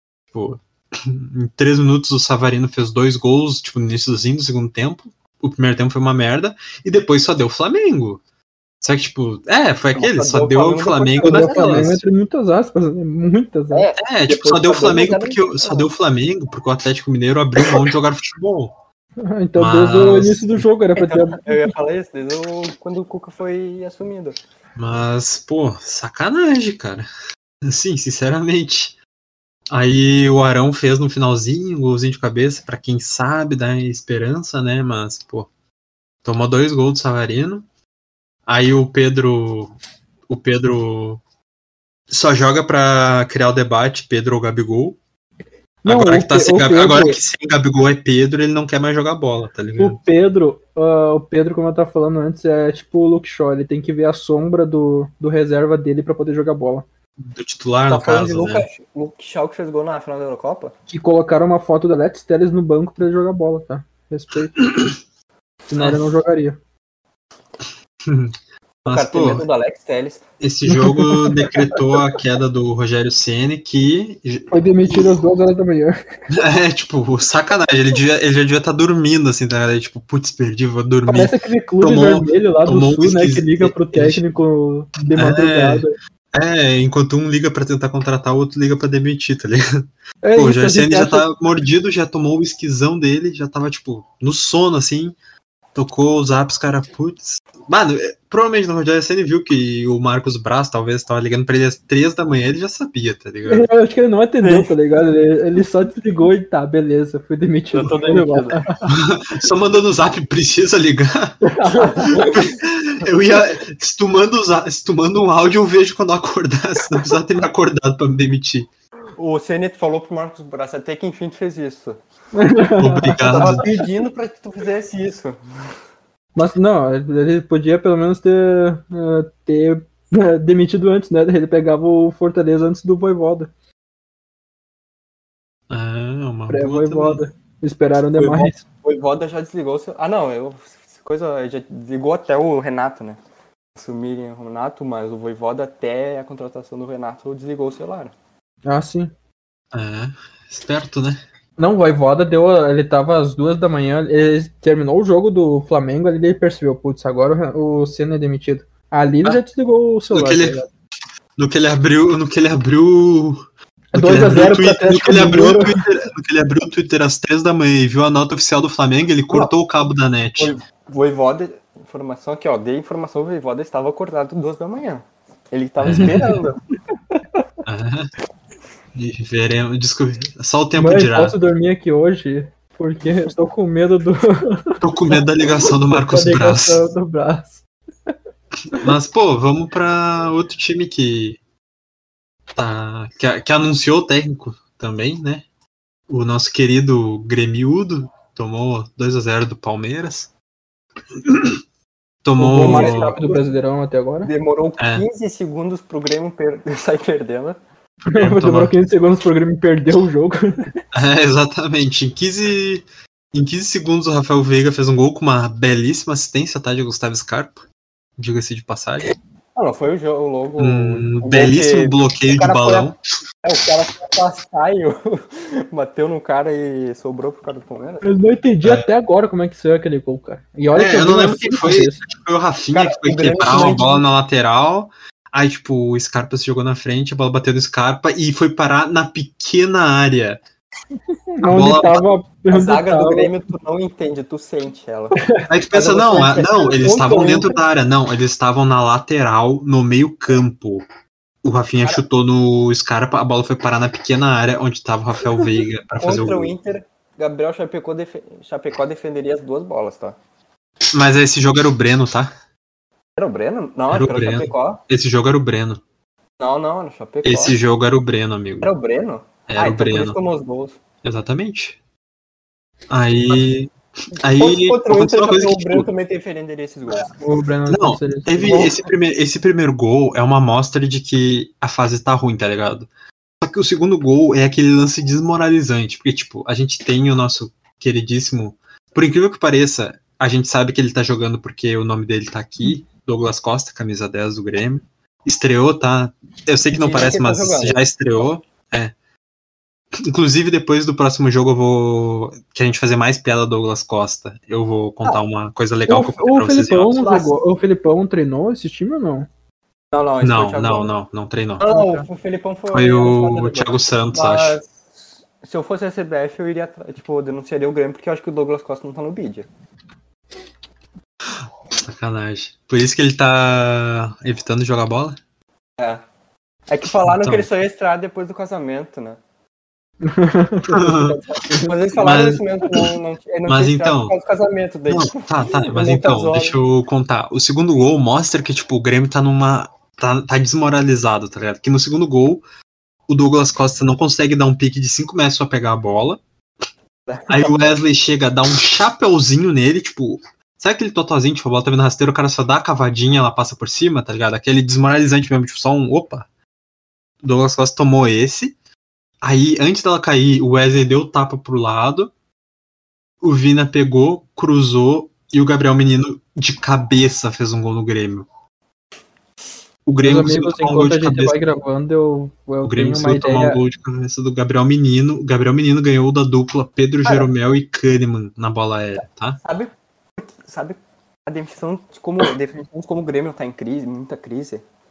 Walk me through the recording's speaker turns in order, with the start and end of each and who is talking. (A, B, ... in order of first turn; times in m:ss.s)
0:00.3-0:08.2 A
0:08.8-0:12.0 A
0:09.9-0:12.0 B
0:11.2-0:13.8 C
0:13.7-0:15.9 B
0:14.0-0:18.7 A
0:19.2-0:21.7 C
0:19.6-0:20.6 A
0:21.0-0:24.4 B
0:24.8-0:27.1 A
0:27.6-0:28.9 A
0:29.7-0:35.5 A
0:36.2-0:37.7 A
0:38.5-0:39.8 A
0:40.3-0:41.2 A
0:42.1-0:45.0 A
0:45.8-0:47.2 C
0:45.8-0:50.0 A
0:49.8-0:56.8 C
0:57.2-0:58.6 A
0:57.9-1:00.7 B
1:00.9-1:04.6 C
1:05.7-1:06.6 C
1:08.0-1:08.3 A
1:08.8-1:10.2 B
1:08.8-1:09.4 A
1:10.4-1:15.2 A
1:10.7-1:11.7 C
1:14.5-1:16.0 C
1:16.3-1:24.2 A
1:21.1-1:26.0 C
1:25.1-1:35.2 A
1:30.2-1:31.3 C
1:35.7-1:43.7 A
1:43.4-1:48.9 C
1:44.4-1:44.7 B
1:47.7-1:48.6 B
1:48.9-1:58.7 A
1:51.4-1:52.2 C
1:51.7-1:52.6 B
1:59.2-2:02.0 B
2:02.3-2:03.7 C
2:02.8-2:03.7 A
2:03.2-2:05.4 B
2:06.4-2:13.5 C
2:15.7-2:17.2 A
2:16.5-2:18.6 C
2:18.2-2:23.2 B
2:23.8-2:28.1 B
2:28.6-2:29.1 C
2:29.7-2:31.2 A
2:31.6-2:40.7 C
2:40.1-2:40.6 A
2:41.4-2:50.6 A
2:43.9-2:45.8 C
2:50.4-2:56.6 B
2:55.8-2:56.4 A
2:56.0-2:56.3 C
2:57.6-2:58.1 A
2:58.9-3:01.4 A
3:00.8-3:04.8 C
3:04.8-3:06.8 A
3:05.6-3:08.1 C
3:08.7-3:11.4 A
3:12.5-3:15.4 A
3:16.1-3:20.3 A
3:21.2-3:21.6 A
3:22.2-3:23.2 A
3:22.4-3:24.3 C
3:22.5-3:23.4 B
3:24.2-3:27.6 B
3:24.8-3:25.0 A
3:28.0-3:28.7 A
3:28.1-3:30.7 C
3:30.9-3:37.6 A
3:38.2-3:39.1 A
3:39.6-3:42.9 B
3:40.6-3:43.0 A
3:43.4-3:48.0 B
3:48.0-3:52.0 C
3:50.7-4:00.4 A
3:52.7-3:54.0 B
4:01.4-4:03.3 C
4:01.5-4:02.0 A
4:02.5-4:06.9 B
4:05.2-4:05.4 C
4:05.5-4:10.8 A
4:06.8-4:07.5 C
4:11.4-4:16.5 A
4:16.0-4:20.2 B
4:20.9-4:22.3 A
4:23.2-4:24.8 B
4:23.9-4:25.8 A
4:26.4-4:27.6 B
4:27.2-4:28.7 A
4:28.6-4:30.8 B
4:29.5-4:30.2 A
4:31.0-4:31.8 A
4:32.9-4:35.9 A
4:34.2-4:37.1 B
4:37.1-4:38.7 C
4:37.7-4:42.9 A
4:43.4-4:58.9 A
4:56.7-4:57.8 B
5:00.0-5:07.2 A
5:05.9-5:09.3 C
5:09.9-5:10.9 B
5:10.2-5:11.7 A
5:11.6-5:19.5 B
5:11.7-5:12.0 C
5:12.7-5:14.6 A
5:21.8-5:25.2 A
5:26.7-5:29.2 B
5:27.0-5:27.5 A
5:30.0-5:31.8 C
5:30.7-5:31.2 A
5:31.5-5:36.6 B
5:32.0-5:32.9 A
5:33.5-5:34.1 A
5:34.9-5:42.4 A
5:43.1-5:46.2 A
5:47.1-5:47.6 B
5:47.3-5:56.2 A
5:57.2-5:58.5 A
5:59.2-6:02.1 A
6:03.2-6:08.3 A
6:09.8-6:11.4 A
6:10.0-6:13.6 C
6:12.6-6:19.4 A
6:17.0-6:17.3 B
6:19.4-6:24.6 B